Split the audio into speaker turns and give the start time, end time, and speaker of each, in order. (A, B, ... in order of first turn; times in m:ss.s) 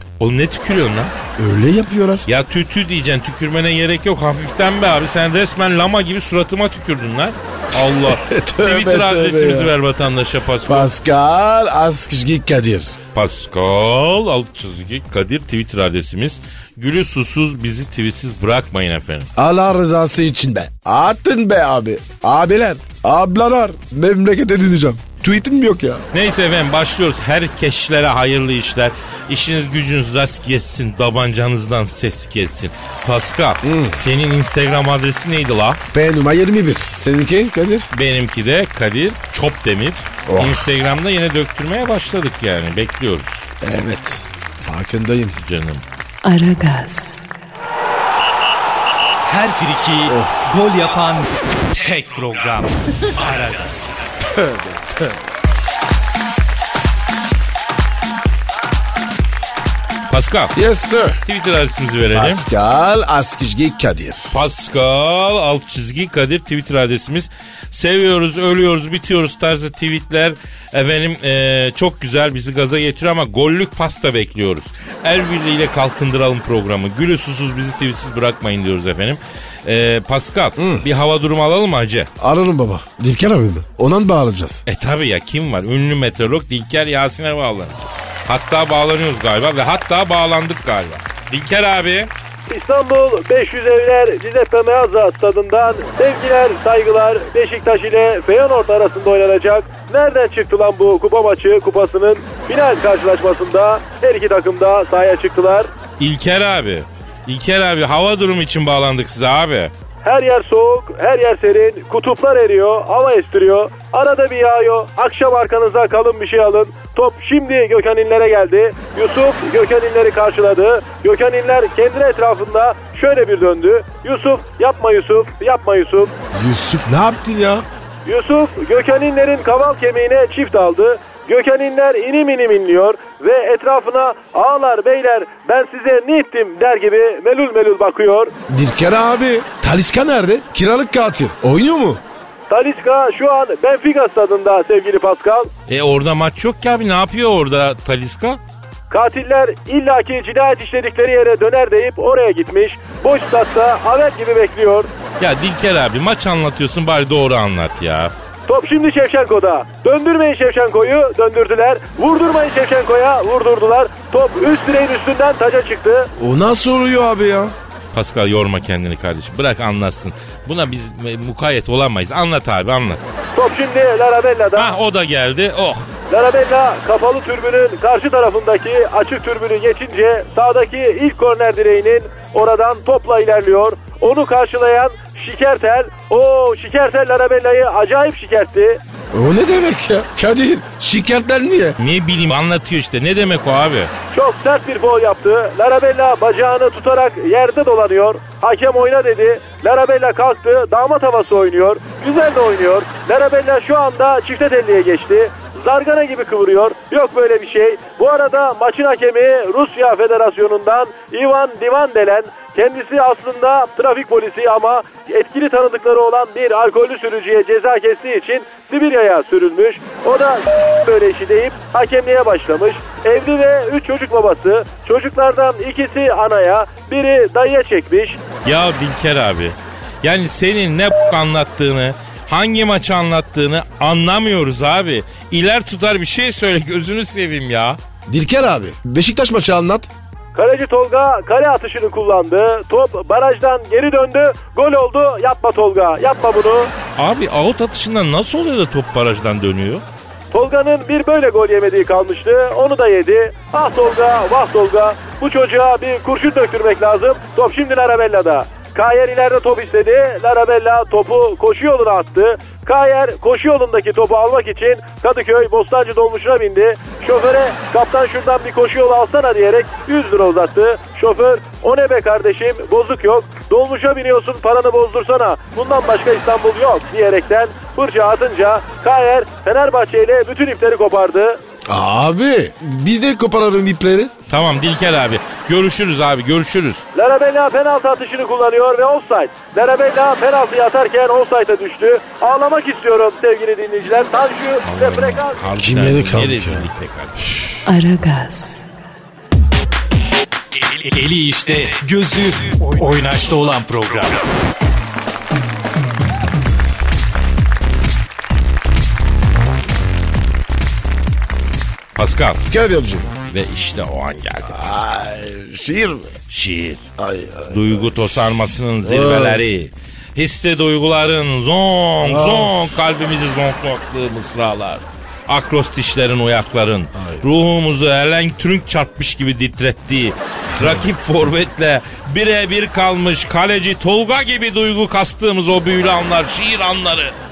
0:00.2-0:01.1 A
0:01.4-0:02.3 B
0:02.3-0:10.9 A
0:07.7-0:09.7 B
0:10.6-0:13.0 B
0:13.1-0:19.3 A
0:19.4-0:26.1 B
0:26.1-0:35.8 A
0:33.6-0:34.0 B
0:35.9-0:37.9 B
0:37.9-0:43.5 A
0:40.3-0:40.7 B
0:43.6-0:45.4 B
0:45.4-0:45.8 A
0:46.2-0:47.2 C
0:49.2-0:53.9 D
0:50.1-0:50.5 B
0:54.2-0:55.2 B
1:00.1-1:00.6 A
1:00.5-1:01.2 B
1:01.3-1:02.4 A
1:02.1-1:04.3 B
1:04.3-1:22.1 A
1:20.6-1:20.8 B
1:22.2-1:24.6 B
1:24.7-1:32.1 A
1:32.5-1:45.7 E
1:46.0-1:49.7 A
1:50.0-2:06.1 E
2:06.3-2:07.7 B
2:08.1-2:18.3 E
2:18.5-2:22.0 B
2:22.5-2:25.5 E
2:25.7-2:28.4 A
2:28.9-2:34.9 E
2:35.2-2:38.1 A
2:38.5-2:46.1 E
2:46.2-2:47.6 B
2:47.9-2:53.0 A
2:53.4-2:54.7 E
2:54.6-2:55.9 A
2:56.1-3:08.8 E
3:09.1-3:11.8 B
3:11.8-3:13.9 A
3:14.1-3:48.2 E
3:48.4-3:57.8 A
3:58.1-3:59.9 B
4:00.4-4:06.7 E
4:07.0-4:09.8 A
4:10.3-4:41.4 E
4:41.7-4:44.1 B
4:44.3-4:46.8 A
4:47.0-4:55.4 E
4:54.6-4:57.2 A
4:55.6-4:56.7 B
4:57.7-4:58.7 C
5:00.6-5:04.2 D
5:12.0-5:12.4 A
5:12.5-5:13.1 B
5:13.3-5:14.9 A
5:14.4-5:16.1 B
5:16.3-5:16.8 A
5:17.0-5:18.3 B
5:17.5-5:37.2 A
5:18.8-5:19.4 B
5:22.0-5:22.7 B
5:27.0-5:27.2 B
5:30.6-5:30.9 B